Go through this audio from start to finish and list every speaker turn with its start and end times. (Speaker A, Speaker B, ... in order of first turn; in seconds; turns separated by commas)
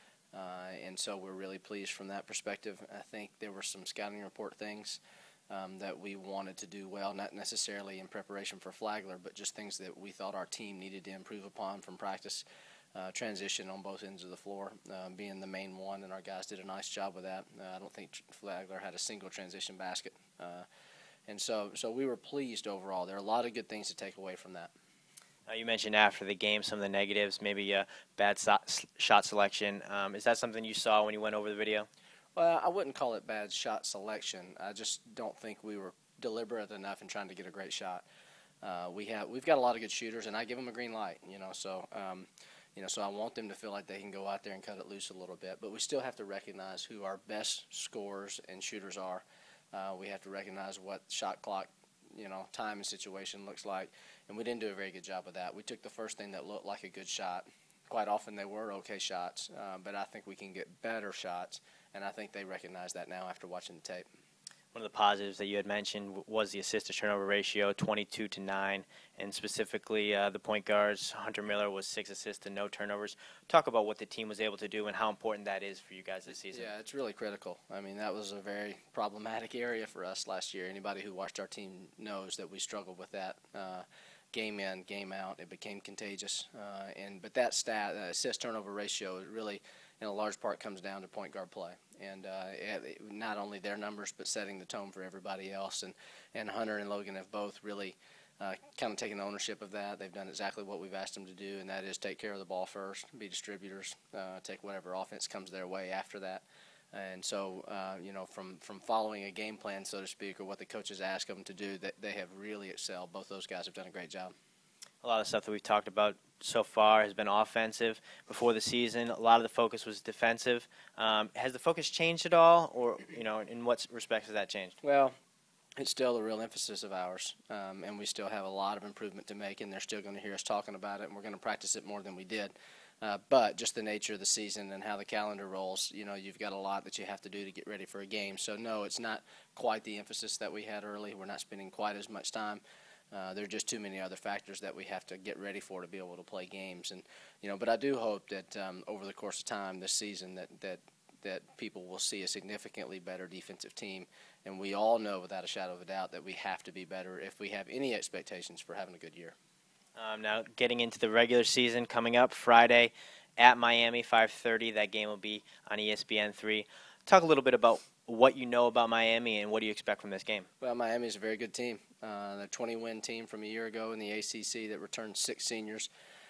Speaker A: 0.3-5.0, Speaker A: 5.5-12.4, Speaker A: 12.9-20.6, Speaker A: 21.3-24.7, Speaker B: 25.5-31.9, Speaker A: 32.4-38.0, Speaker A: 38.6-64.0, Speaker B: 64.7-76.7, Speaker A: 76.5-114.3, Speaker B: 115.0-124.8, Speaker A: 124.8-125.1, Speaker A: 125.8-142.6, Speaker A: 143.1-159.3, Speaker B: 160.0-170.5, Speaker A: 170.6-175.9